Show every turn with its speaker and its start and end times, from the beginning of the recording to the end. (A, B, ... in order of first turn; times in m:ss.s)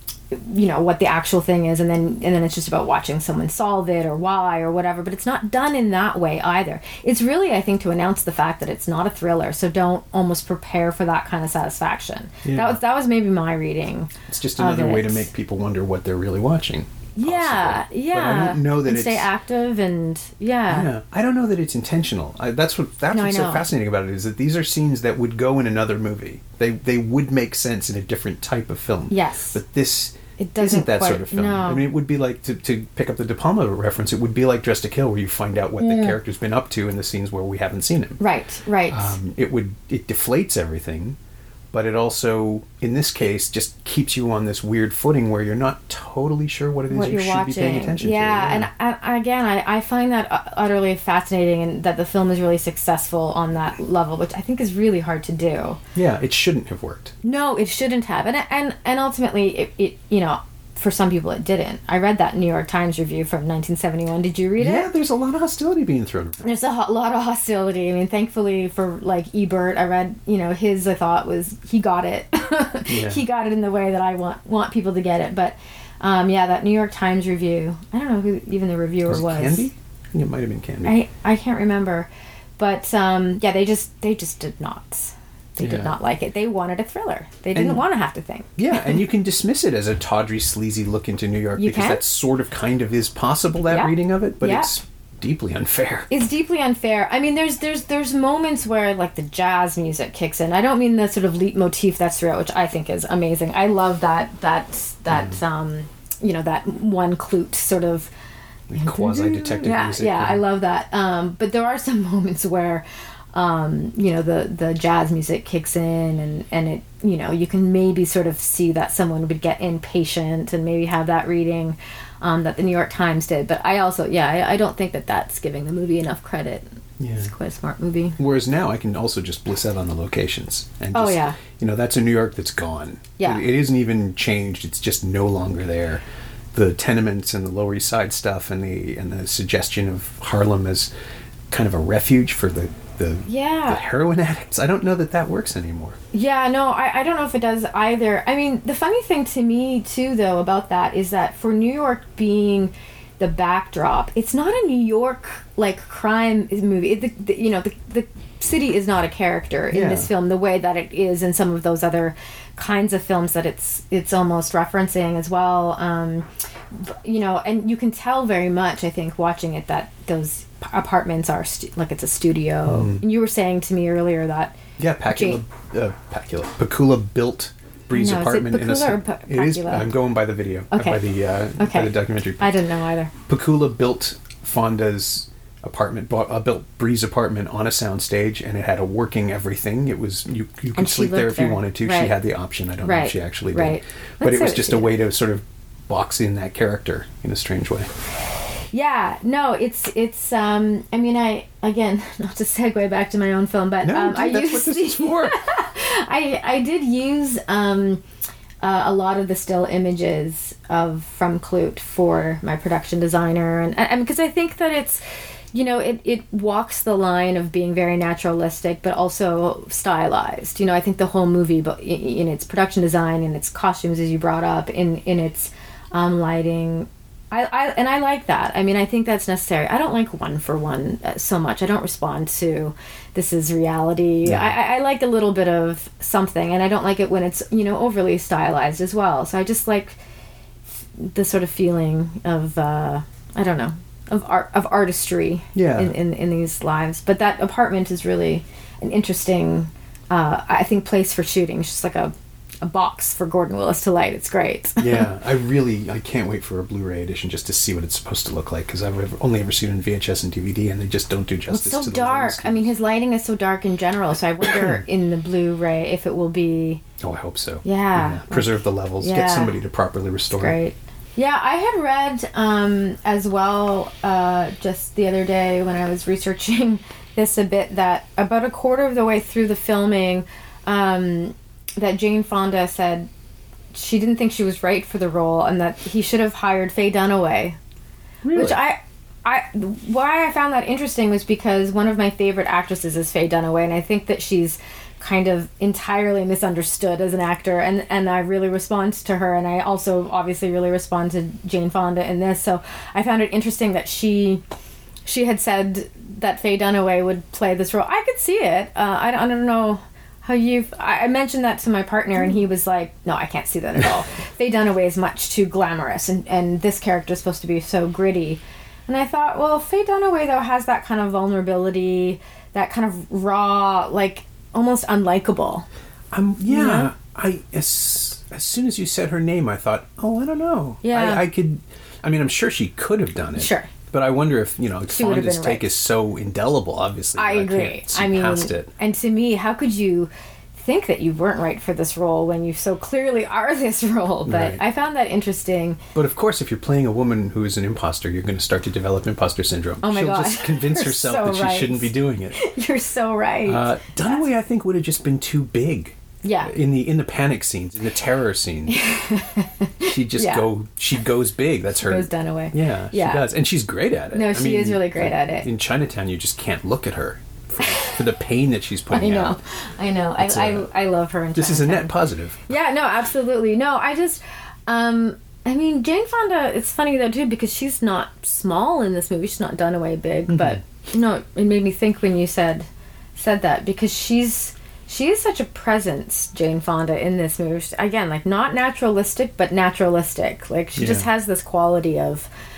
0:00.3-0:15.3 A
0:12.4-0:12.8 B
0:14.3-0:19.3 B
0:17.2-0:20.9 A
0:20.7-0:38.2 B
0:23.1-0:23.6 A
0:29.1-0:29.6 A
0:30.4-0:31.8 A
0:35.8-0:36.2 A
0:38.2-0:39.2 A
0:38.9-0:41.2 B
0:41.7-0:48.7 B
0:46.9-0:55.8 A
0:55.9-0:57.1 B
0:57.2-1:04.9 A
1:04.6-1:06.4 B
1:06.4-1:19.7 A
1:12.9-1:13.2 B
1:19.1-1:21.0 B
1:20.8-1:22.1 A
1:22.6-1:29.0 A
1:25.6-1:25.9 B
1:27.5-1:27.8 B
1:28.6-1:36.1 B
1:31.6-1:32.0 A
1:33.7-1:34.7 A
1:36.1-1:48.1 A
1:45.1-1:45.4 B
1:48.7-1:50.4 B
1:48.8-2:08.2 A
2:07.0-2:07.3 B
2:08.2-2:16.0 B
2:10.9-2:11.4 A
2:13.2-2:13.4 A
2:16.5-2:20.9 B
2:21.5-2:26.0 B
2:23.3-2:23.8 A
2:26.1-2:54.5 A
2:39.7-2:40.1 B
2:52.6-2:53.0 B
2:54.8-3:02.5 B
2:55.1-2:55.4 A
2:57.9-2:59.9 A
3:00.7-3:01.0 A
3:01.6-3:03.1 A
3:03.3-3:17.9 B
3:10.8-3:12.1 A
3:12.8-3:14.9 A
3:18.7-3:28.0 A
3:23.8-3:25.4 B
3:28.6-3:35.0 A
3:35.5-4:00.0 A
3:54.2-3:54.5 B
4:00.9-4:15.1 A
4:05.5-4:06.0 B
4:14.8-4:22.7 B
4:21.5-4:26.8 A
4:24.4-4:24.8 B
4:27.0-4:30.6 B
4:27.6-4:29.6 A
4:30.3-4:43.1 A
4:43.7-4:47.6 A
4:48.2-4:48.6 B
4:48.3-5:04.4 A
5:05.0-5:25.7 A
5:26.1-5:38.7 B
5:26.5-5:26.9 A
5:30.8-5:31.2 A
5:33.4-5:33.7 A
5:34.9-5:35.7 A
5:37.2-5:45.8 A
5:44.2-5:44.6 B
5:45.9-5:52.4 B
5:49.8-5:54.2 A
5:53.4-5:58.8 B
5:56.2-5:56.5 A
5:58.7-6:00.5 A
5:59.9-6:09.4 B
6:01.8-6:03.2 A
6:04.1-6:05.5 A
6:07.6-6:08.0 A
6:08.9-6:11.9 A
6:10.2-6:10.7 B
6:11.3-6:12.5 B
6:12.5-6:32.3 A
6:20.3-6:20.6 B
6:30.8-6:31.1 B